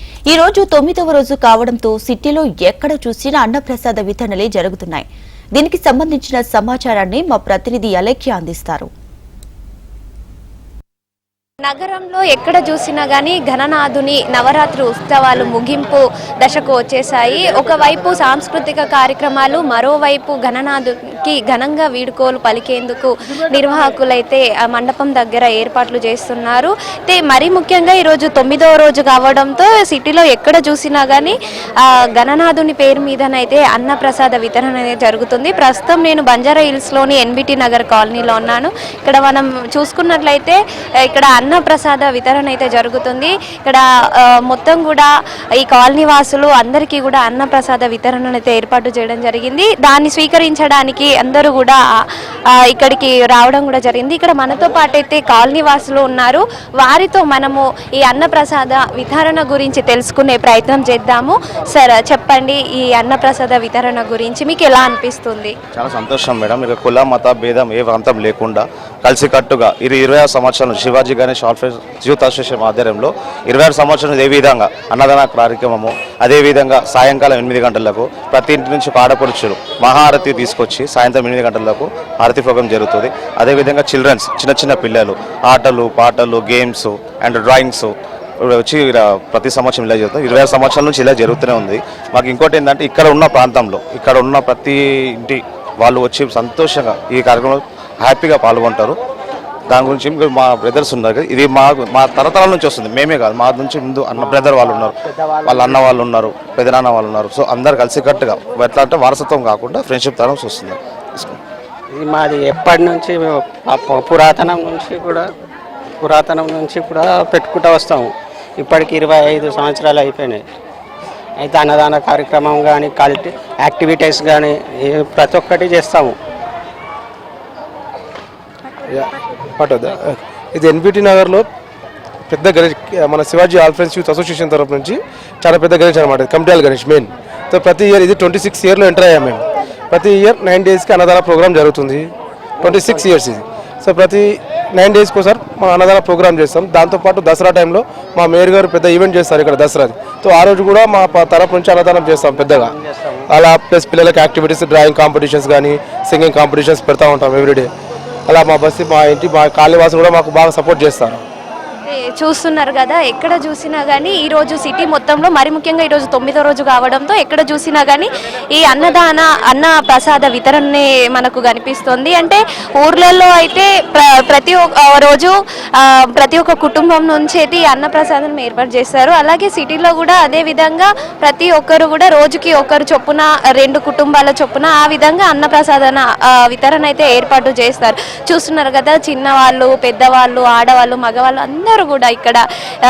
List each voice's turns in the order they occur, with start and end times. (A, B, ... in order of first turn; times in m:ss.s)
0:00.3-0:08.9 A
0:11.6-0:51.8 B
0:52.5-1:05.6 B
1:05.7-1:39.0 C
1:39.7-1:51.4 C
1:45.1-1:45.9 D
1:51.9-1:55.3 D
1:56.0-2:00.4 D
2:01.4-2:06.2 D
2:08.9-2:11.5 E
2:12.3-2:22.1 E
2:22.6-2:23.1 D
2:22.6-2:32.8 E
2:32.2-2:33.3 D
2:33.3-2:37.7 E
2:38.3-2:41.2 E
2:41.8-3:12.4 B